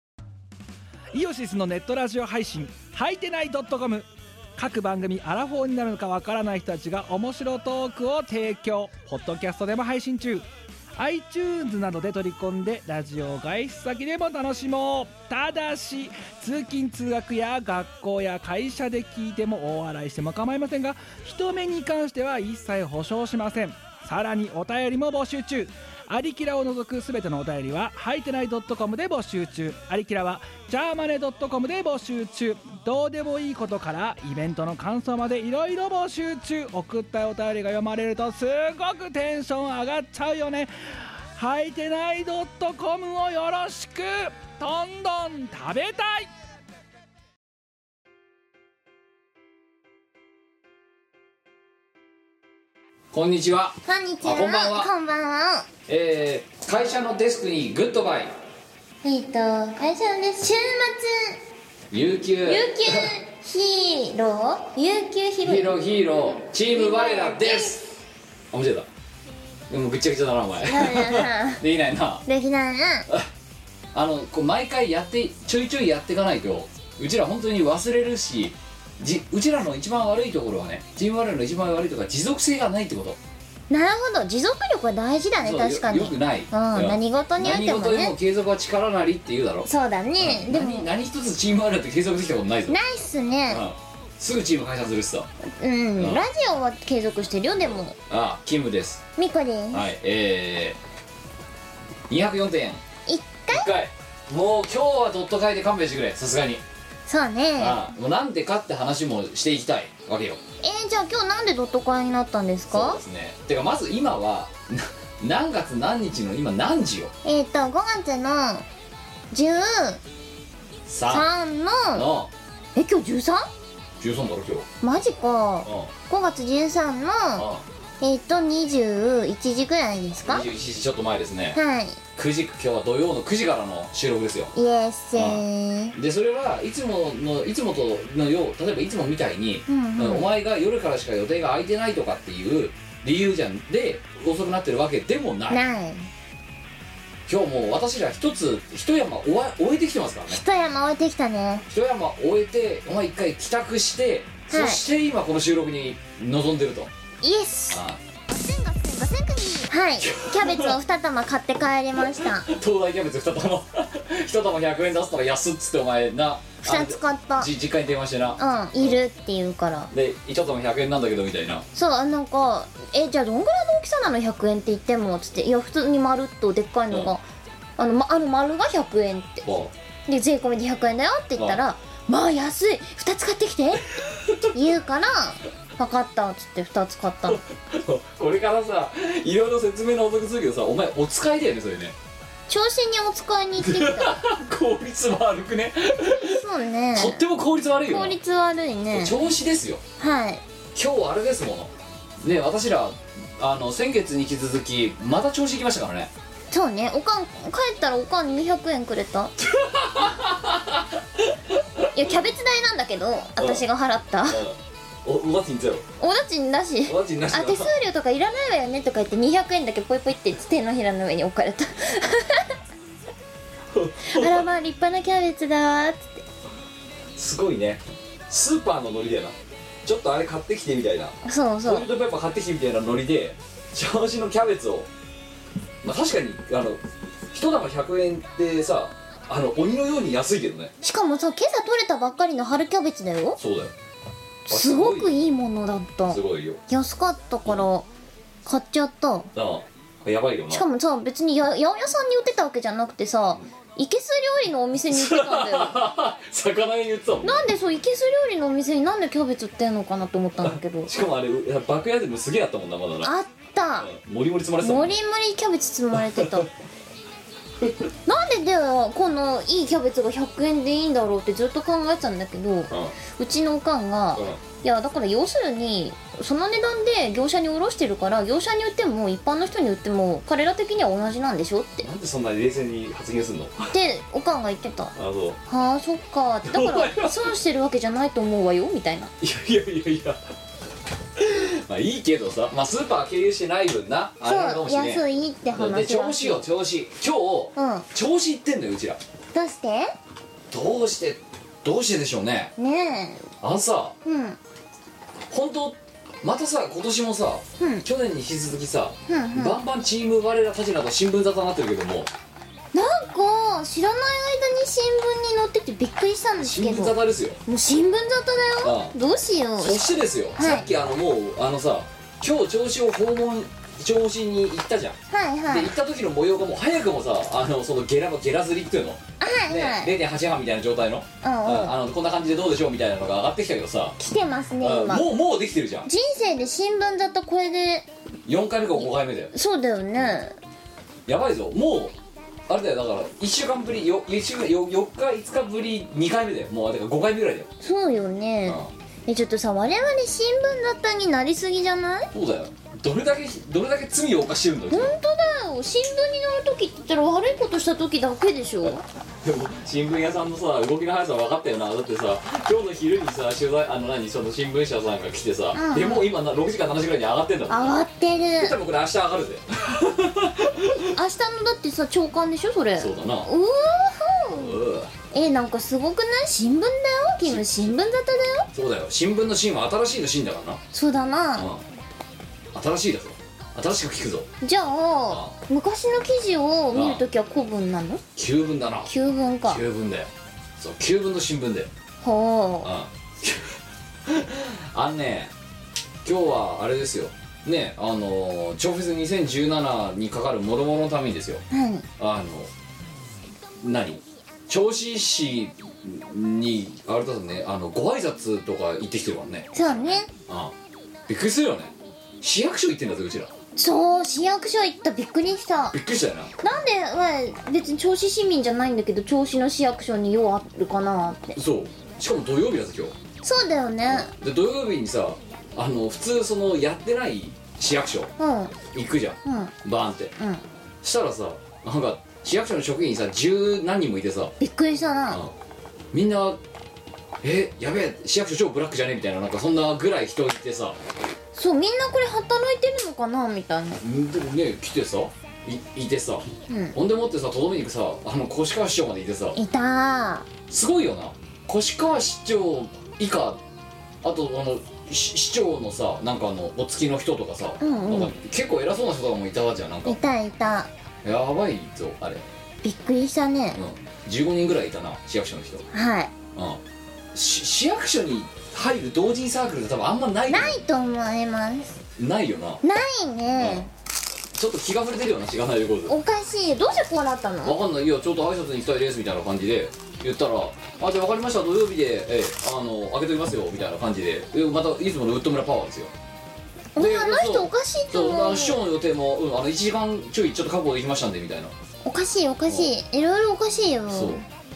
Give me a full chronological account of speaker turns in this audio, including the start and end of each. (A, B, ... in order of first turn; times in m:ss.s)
0:01.1-0:10.4 A
0:11.0-0:40.7 A
0:41.4-0:46.3 A
0:53.1-0:54.9 B
0:53.8-0:55.7 C
0:55.9-0:58.3 B
0:59.0-1:01.4 C
1:01.9-1:03.1 B
1:02.4-1:05.7 C
1:05.4-1:07.8 B
1:06.7-1:07.8 C
1:08.5-1:08.9 B
1:09.7-1:12.2 B
1:10.6-1:11.6 C
1:12.2-1:13.1 C
1:13.9-1:23.2 B
1:23.7-1:28.1 C
1:25.4-1:32.8 B
1:29.6-1:30.9 C
1:32.7-1:33.6 C
1:33.5-1:35.3 B
1:35.4-1:38.0 C
1:36.0-1:36.2 B
1:37.6-1:39.0 B
1:39.2-1:39.9 C
1:39.7-1:40.8 B
1:42.1-1:42.8 B
1:43.1-1:43.7 C
1:43.5-1:46.6 B
1:47.1-1:47.8 C
1:47.6-1:50.4 B
1:50.6-1:53.0 C
1:52.7-1:57.1 B
1:57.2-1:58.6 C
1:59.3-2:00.0 C
2:00.8-2:01.3 B
2:01.1-2:02.0 C
2:01.9-2:02.3 B
2:02.8-2:03.4 C
2:04.0-2:04.7 B
2:04.8-2:07.5 C
2:05.6-2:05.9 B
2:07.3-2:07.6 B
2:08.0-2:10.4 C
2:10.2-2:11.6 B
2:11.5-2:12.0 C
2:12.2-2:14.5 B
2:14.5-2:16.0 C
2:15.1-2:25.6 B
2:19.7-2:20.3 C
2:25.5-2:26.1 C
2:27.3-2:30.4 B
2:30.3-2:31.6 C
2:31.7-2:36.9 B
2:34.5-2:34.8 C
2:37.2-2:42.5 C
2:37.7-2:38.0 B
2:40.0-2:40.8 B
2:42.0-2:49.0 B
2:46.6-2:47.5 C
2:48.4-2:49.9 C
2:49.9-2:51.6 B
2:51.7-2:57.2 C
2:57.8-2:59.4 C
2:59.4-2:59.7 B
3:00.1-3:03.9 C
3:04.1-3:04.5 B
3:04.5-3:07.4 C
3:07.3-3:11.9 B
3:12.5-3:14.2 C
3:13.6-3:16.4 B
3:16.2-3:17.2 C
3:16.9-3:18.2 B
3:17.9-3:19.2 C
3:18.9-3:19.8 B
3:20.0-3:20.4 C
3:20.7-3:26.1 B
3:26.5-3:29.3 C
3:29.4-3:31.9 B
3:31.9-3:34.4 C
3:33.4-3:33.6 B
3:34.3-3:35.8 B
3:36.0-3:42.5 C
3:36.8-3:37.7 B
3:43.7-3:44.4 B
3:44.0-3:46.2 C
3:47.2-3:54.9 B
3:51.2-3:51.9 C
3:55.8-3:56.8 B
3:57.3-4:00.7 B
4:00.8-4:03.4 C
4:03.4-4:03.7 B
4:04.5-4:07.9 C
4:04.5-4:05.2 B
4:06.1-4:06.6 B
4:08.4-4:09.3 C
4:09.3-4:10.6 B
4:10.5-4:15.8 C
4:14.9-4:17.4 B
4:17.2-4:20.9 C
4:20.4-4:23.1 B
4:23.0-4:23.9 C
4:23.8-4:25.0 B
4:24.6-4:26.5 C
4:25.9-4:26.5 B
4:27.6-4:27.9 B
4:28.0-4:41.9 C
4:34.1-4:34.4 B
4:41.8-4:43.7 B
4:43.7-4:44.9 C
4:44.9-4:45.4 B
4:45.5-4:49.1 C
4:46.5-4:47.3 B
4:49.2-4:50.2 B
4:51.2-4:59.0 B
4:54.2-4:56.4 C
4:57.6-4:57.8 C
4:59.3-4:59.9 C
5:00.5-5:02.5 B
5:02.6-5:03.3 C
5:03.4-5:03.9 B
5:04.0-5:04.4 C
5:05.3-5:12.1 B
5:07.6-5:07.9 C
5:09.1-5:09.6 C
5:12.7-5:16.9 C
5:16.4-5:17.4 B
5:17.5-5:20.7 C
5:18.6-5:18.9 B
5:19.6-5:34.0 B
5:25.1-5:25.7 C
5:29.2-5:30.0 C
5:31.2-5:31.8 C
5:34.0-5:35.1 C
5:34.6-5:35.9 B
5:35.8-5:37.9 C
5:38.2-5:39.3 B
5:38.8-5:40.4 C
5:41.0-5:41.9 B
5:42.5-5:47.5 B
5:47.6-5:52.1 C
5:48.4-5:48.7 B
5:52.1-5:55.0 B
5:54.7-5:58.8 C
5:58.6-6:07.8 B
6:05.5-6:06.1 C
6:07.5-6:08.6 C
6:08.4-6:10.9 B
6:10.8-6:14.6 C
6:12.8-6:13.3 B
6:14.3-6:14.9 B
6:15.1-6:18.5 C
6:17.2-6:17.7 B
6:18.5-6:20.6 B
6:20.7-6:21.5 C
6:21.4-6:21.6 B
6:22.5-6:24.3 B
6:24.4-6:28.0 C
6:25.1-6:25.4 B
6:26.7-6:27.0 B
6:28.1-6:28.9 B
6:28.8-6:29.6 C
6:29.4-6:31.7 B
6:32.0-6:32.7 C
6:32.6-6:35.3 B
6:36.0-6:41.4 B
6:41.5-6:41.8 C
6:42.0-6:42.5 B
6:43.6-6:50.5 B
6:49.5-6:50.1 C
6:51.1-6:53.3 B
6:53.6-6:55.8 C
6:55.7-6:56.3 B
6:56.4-7:01.4 C
7:01.4-7:02.9 B
7:03.2-7:04.1 C
7:03.9-7:08.1 B
7:08.2-7:08.6 C
7:08.7-7:10.1 B
7:09.2-7:09.5 C
7:10.2-7:10.4 C
7:10.8-7:14.3 B
7:14.4-7:15.2 C
7:15.9-7:16.4 B
7:17.2-7:20.8 B
7:21.3-7:23.8 C
7:23.8-7:29.4 B
7:26.5-7:26.8 C
7:29.3-7:30.3 C
7:30.5-7:33.4 B
7:34.0-7:40.0 B
7:37.6-7:38.1 C
7:39.8-7:40.7 C
7:41.0-7:42.2 B
7:42.6-7:43.6 C
7:43.5-7:45.6 B
7:45.7-7:46.1 C
7:46.3-7:46.6 B
7:47.1-7:50.6 B
7:50.3-7:51.8 C
7:52.0-7:52.6 B
7:52.6-7:53.7 C
7:53.3-7:53.7 B
7:54.3-7:56.0 B
7:55.9-7:57.6 C
7:57.4-8:05.9 B
8:06.7-8:08.6 C
8:06.8-8:11.5 B
8:11.8-8:14.2 C
8:13.9-8:14.2 B